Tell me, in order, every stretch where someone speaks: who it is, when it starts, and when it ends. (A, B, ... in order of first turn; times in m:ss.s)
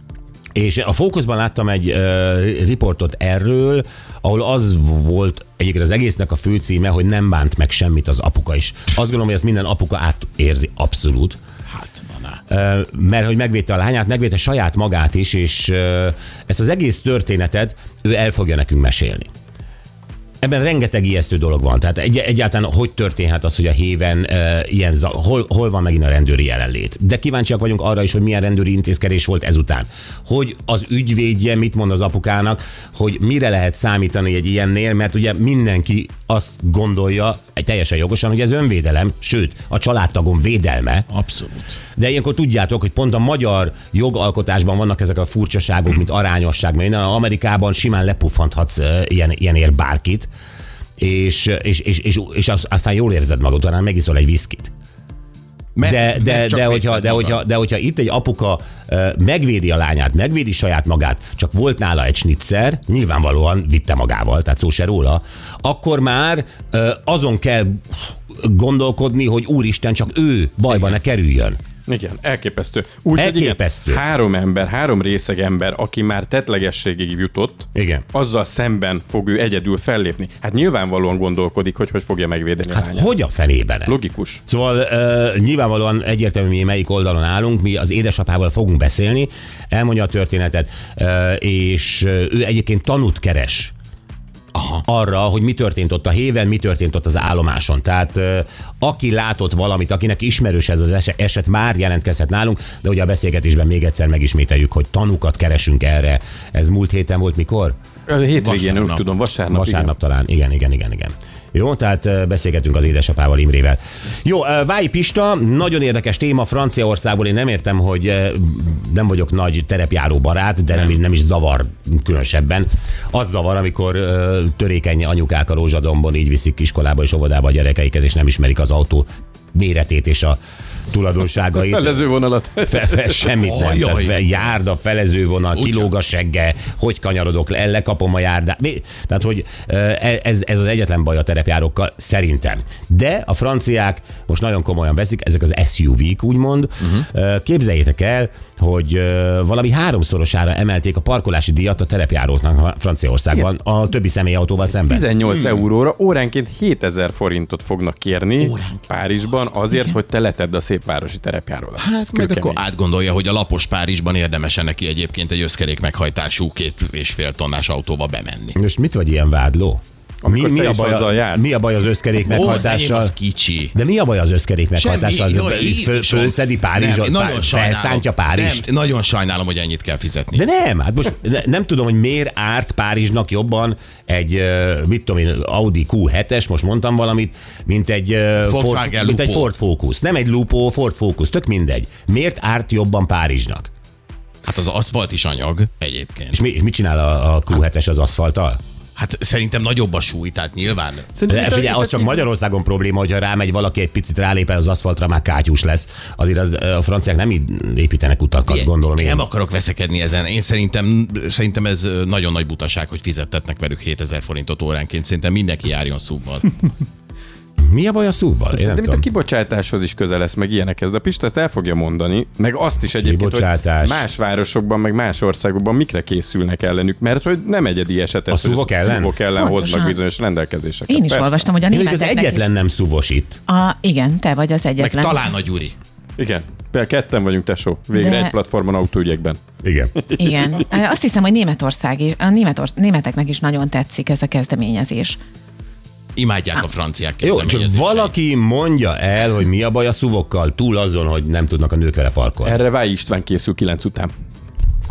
0:00.6-0:11.4 A
0:11.7-0:12.4 B
0:12.5-0:19.3 A
0:20.4-0:41.1 A
0:41.1-0:41.8 B
0:42.0-0:50.3 A
0:51.0-0:54.7 A
0:55.8-0:57.4 B
0:55.8-1:11.6 A
1:11.9-1:23.1 C
1:13.2-1:14.0 A
1:17.8-1:18.0 A
1:22.7-1:24.0 A
1:23.9-1:24.4 C
1:24.5-1:33.7 A
1:34.5-1:34.8 B
1:34.8-1:47.8 A
1:48.1-1:49.9 C
1:48.4-1:49.0 B
1:49.5-2:10.4 A
2:10.9-2:12.1 A
2:11.7-2:13.3 C
2:12.7-2:35.1 A
2:13.4-2:14.4 B
2:15.5-2:15.9 B
2:34.9-2:42.6 C
2:38.4-2:38.9 B
2:41.8-2:48.6 B
2:48.6-2:53.1 A
2:50.2-2:51.5 C
2:52.3-2:53.8 B
2:53.7-2:58.7 A
2:54.8-3:00.4 B
3:00.3-3:13.7 A
3:08.4-3:09.5 B
3:14.4-3:16.4 B
3:16.3-3:18.6 A
3:19.0-3:21.1 B
3:21.1-3:22.2 C
3:21.3-3:29.2 A
3:28.5-3:36.7 B
3:37.6-3:39.0 A
3:38.5-3:51.5 C
3:43.0-3:44.0 A
3:48.3-3:49.1 A
3:49.4-3:50.0 D
3:50.9-3:52.5 D
3:51.7-3:53.4 A
3:53.5-3:55.2 D
3:54.8-3:55.8 B
3:56.2-3:59.4 C
3:57.9-3:58.3 D
3:59.6-4:00.0 A
4:00.2-4:05.2 D
4:06.2-4:08.1 B
4:07.2-4:12.6 A
4:12.4-4:14.1 C